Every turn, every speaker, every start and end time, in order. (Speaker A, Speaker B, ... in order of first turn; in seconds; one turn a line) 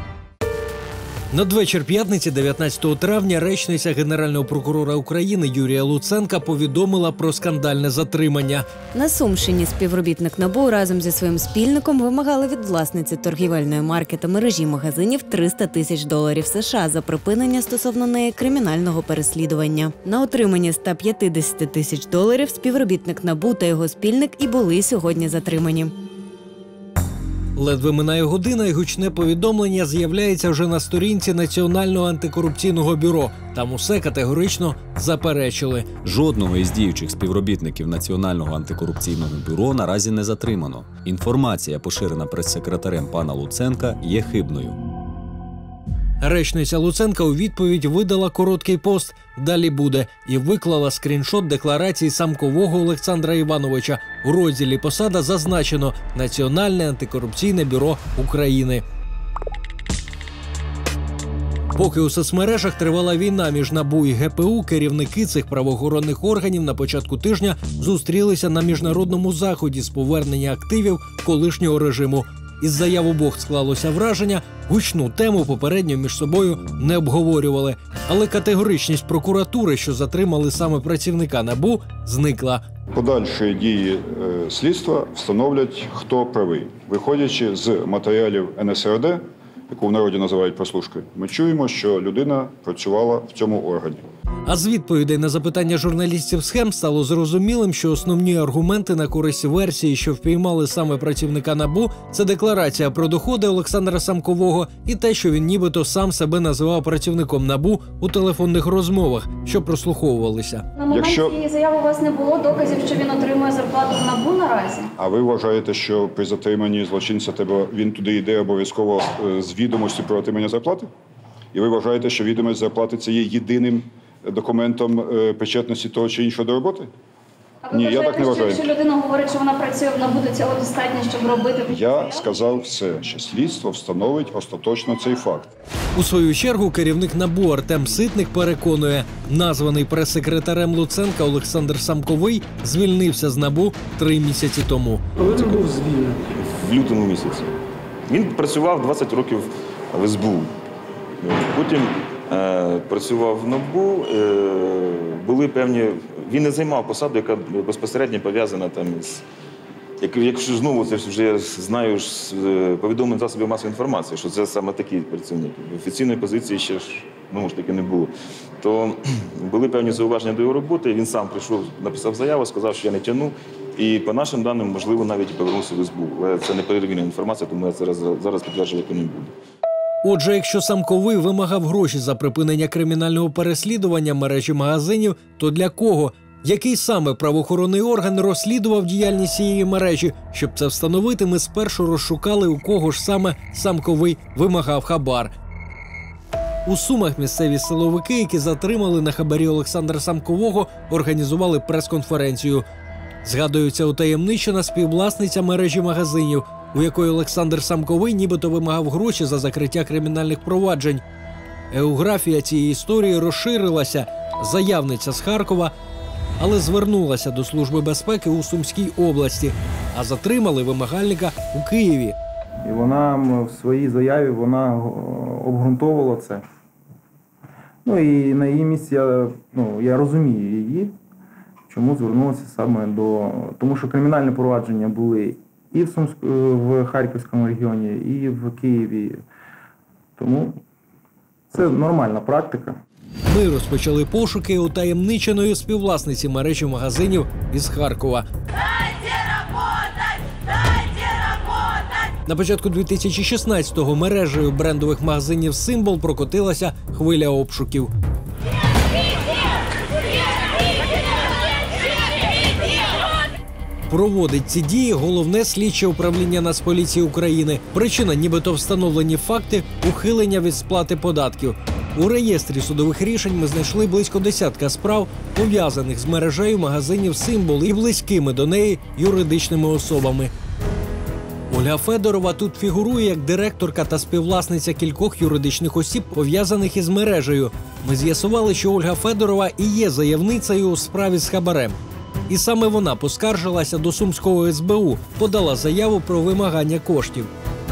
Speaker A: 1.3-8.7
Speaker B: 8.9-25.9
Speaker A: 27.6-35.9
Speaker C: 36.0-44.8
Speaker A: 46.2-58.8
Speaker A: 61.7-82.6
Speaker D: 82.9-94.0
Speaker A: 94.5-111.2
Speaker D: 110.9-111.4
Speaker E: 111.3-114.9
Speaker D: 115.0-120.9
Speaker D: 121.5-126.9
Speaker E: 127.7-131.6
Speaker D: 127.7-128.7
Speaker A: 127.8-128.6
Speaker D: 131.7-135.5
Speaker A: 135.9-145.5
Speaker F: 145.2-147.5
Speaker F: 148.1-150.5
Speaker F: 151.2-159.2
Speaker F: 160.0-179.3
Speaker A: 180.0-195.3
Speaker A: 196.7-202.7
Speaker A: 203.2-211.0
Speaker A: 211.7-215.7
Speaker A: 216.4-222.2
Speaker G: 222.6-226.4
Speaker G: 227.8-230.9
Speaker G: 231.7-239.2
Speaker G: 240.2-240.6
Speaker G: 241.5-242.8
Speaker A: 243.3-248.3
Speaker A: 252.2-257.9
Speaker A: 263.9-280.3
Speaker A: 281.5-291.8
Speaker A: 292.3-297.3